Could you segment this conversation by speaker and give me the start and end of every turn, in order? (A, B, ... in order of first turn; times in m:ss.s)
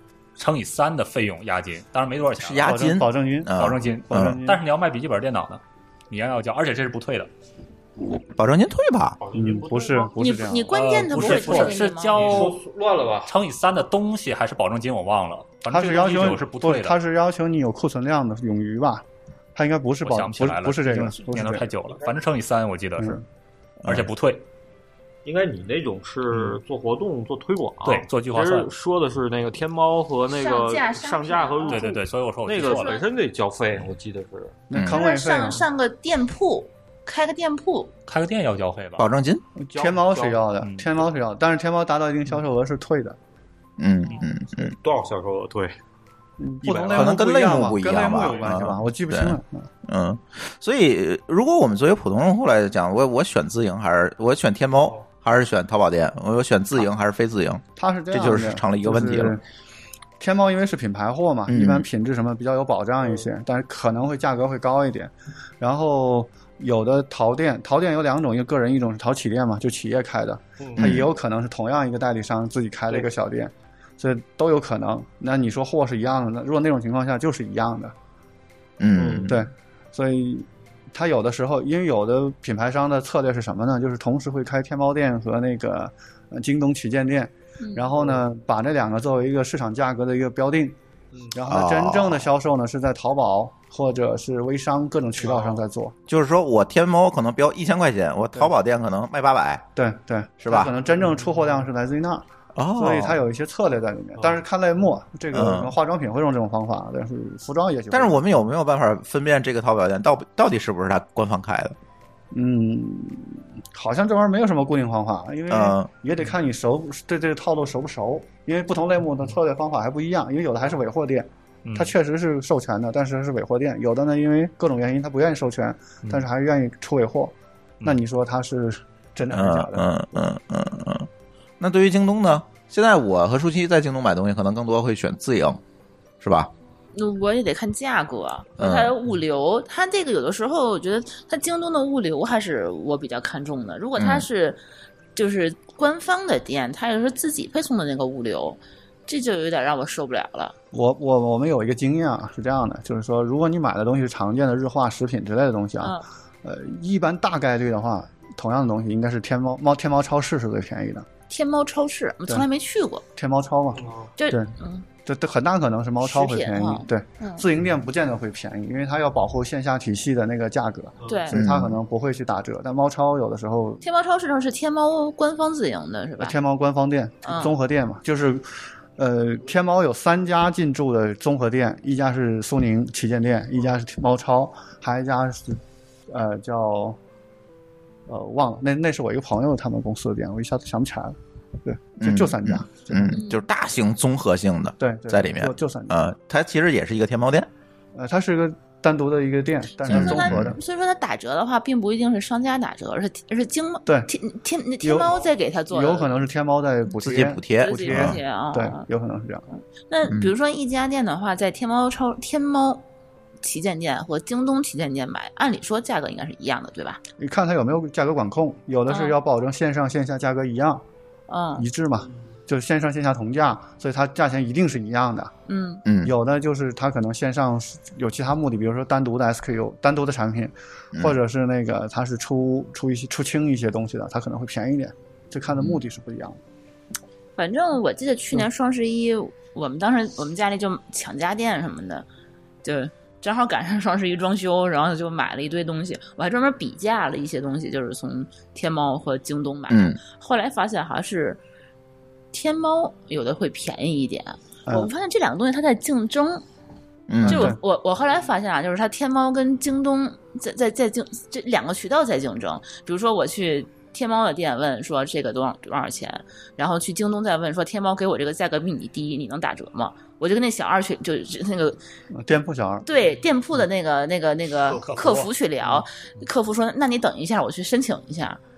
0:00.4-0:02.7 A
0:02.4-0:04.4 B
0:02.6-0:03.5 C
0:03.5-0:07.3 A
0:04.1-0:04.6 C
0:08.3-0:09.2 B
0:09.2-0:10.1 D
0:09.3-0:10.7 C
0:10.2-0:12.5 E
0:10.7-0:12.6 A
0:12.1-0:13.3 D
0:13.2-0:17.0 A
0:15.7-0:21.6 C
0:20.0-0:23.2 A
0:23.0-0:23.2 C
0:23.8-0:24.4 A
0:25.2-0:34.6 D
0:27.8-0:28.7 A
0:30.3-0:32.0 E
0:31.6-0:33.0 A
0:32.5-0:33.0 E
0:34.7-0:35.7 C
0:34.7-0:35.0 B
0:34.8-0:37.9 E
0:38.1-0:39.1 A
0:39.0-0:39.4 B
0:39.6-0:43.2 C
0:39.7-0:40.4 D
0:43.8-0:44.7 B
0:44.6-0:45.7 D
0:46.4-0:49.7 C
0:46.7-0:47.0 A
0:46.9-0:59.4 B
0:57.8-0:59.4 C
1:00.2-1:17.9 C
1:01.5-1:01.8 B
1:10.6-1:10.9 D
1:10.8-1:11.1 B
1:18.8-1:19.4 B
1:19.0-1:19.3 D
1:19.2-1:30.8 C
1:27.6-1:27.9 E
1:28.0-1:28.2 D
1:31.3-1:35.9 C
1:31.5-1:32.2 B
1:35.2-1:35.5 D
1:36.1-1:39.6 B
1:39.7-1:42.2 C
1:40.4-1:40.7 B
1:42.5-1:43.2 B
1:42.8-1:48.2 C
1:45.3-1:45.7 B
1:47.9-1:51.8 B
1:52.3-2:09.9 C
1:55.5-1:55.9 B
2:01.6-2:01.9 A
2:09.3-2:11.1 B
2:11.6-2:15.6 B
2:16.2-2:16.5 B
2:16.9-2:24.6 E
2:18.6-2:18.9 B
2:24.0-2:24.2 B
2:25.2-2:30.5 E
2:30.7-2:41.1 C
2:41.3-2:43.0 E
2:43.2-2:44.5 C
2:43.8-2:44.1 D
2:44.2-2:44.8 E
2:45.0-2:53.8 C
2:46.0-2:47.4 E
2:51.0-2:51.4 E
2:51.3-2:51.8 B
2:53.8-2:56.3 E
2:56.2-3:07.0 C
2:57.2-2:57.5 E
3:08.1-3:13.2 C
3:12.0-3:17.5 B
3:13.1-3:13.4 E
3:14.8-3:15.9 C
3:17.9-3:20.6 C
3:19.8-3:26.1 E
3:19.9-3:20.6 B
3:23.8-3:24.1 C
3:24.8-3:29.4 C
3:27.0-3:28.2 B
3:27.6-3:28.8 E
3:29.9-3:32.8 E
3:30.0-3:30.3 B
3:33.4-3:37.0 E
3:37.2-3:40.8 C
3:38.9-3:39.2 E
3:41.3-3:41.6 E
3:41.6-3:45.3 C
3:45.5-3:45.8 E
3:45.8-3:46.1 B
3:46.0-3:56.4 C
3:57.4-4:02.0 E
4:02.6-4:11.4 E
4:09.7-4:10.0 B
4:12.3-4:16.4 E
4:14.7-4:14.9 C
4:17.1-4:17.5 B
4:17.2-4:17.6 C
4:17.2-4:31.8 E
4:32.1-4:32.9 C
4:32.8-4:38.4 E
4:34.8-4:35.3 A